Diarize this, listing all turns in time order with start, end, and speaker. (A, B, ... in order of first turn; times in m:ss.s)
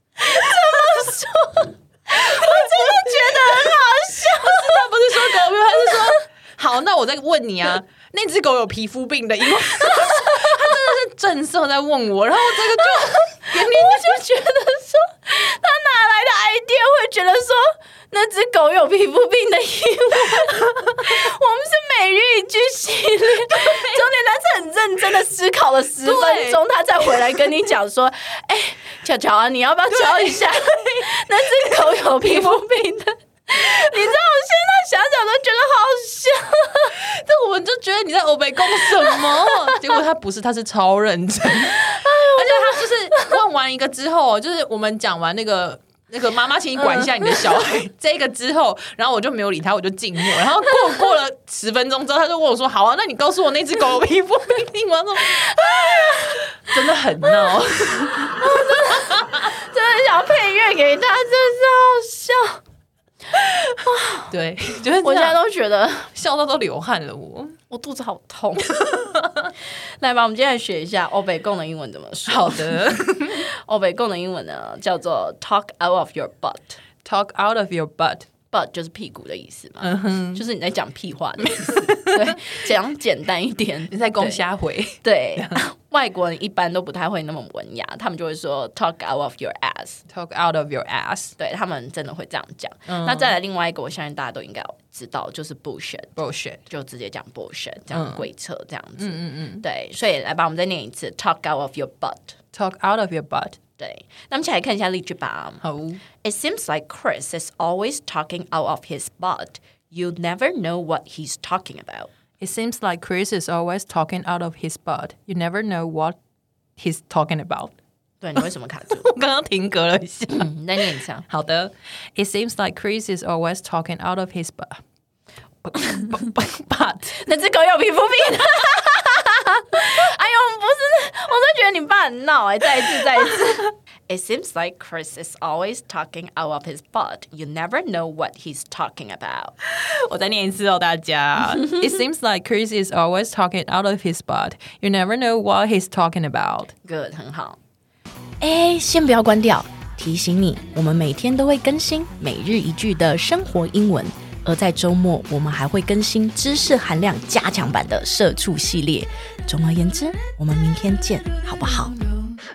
0:00.2-0:06.2 A
0:02.5-0:03.7 B
0:04.3-0:14.2 B
0:12.8-0:37.0 A
0:23.6-0:24.0 B
0:26.0-0:26.6 B
0:30.0-0:30.7 B
0:37.0-0:59.4 B
0:41.7-0:43.4 A
0:55.2-0:56.6 A
0:57.2-0:57.6 A
0:58.2-1:02.6 A
1:03.3-1:04.3 A
1:04.3-1:05.4 B
1:05.0-1:06.1 A
1:06.1-1:07.6 B
1:07.7-1:08.7 A
1:08.8-1:09.5 B
1:09.7-1:16.8 A
1:12.3-1:13.5 B
1:17.0-1:18.3 B
1:18.5-1:24.4 A
1:19.8-1:20.4 B
1:21.5-1:22.4 B
1:23.9-1:25.6 B
1:25.0-1:30.0 A
1:30.1-1:31.3 B
1:31.4-1:36.2 A
1:32.9-1:33.3 B
1:36.2-1:36.6 B
1:36.7-1:42.4 A
1:37.9-1:38.2 B
1:39.0-1:39.6 B
1:42.5-1:43.6 B
1:43.8-1:45.6 A
1:45.6-1:46.0 B
1:46.2-1:52.1 A
1:52.4-1:56.2 B
1:56.8-1:57.7 B
1:58.2-1:59.1 A
1:58.9-2:00.5 B
2:00.3-2:01.2 A
2:01.3-2:04.8 B
2:05.6-2:07.2 B
2:07.2-2:19.5 A
2:19.6-2:26.7 B
2:26.8-2:27.6 A
2:28.4-2:42.0 A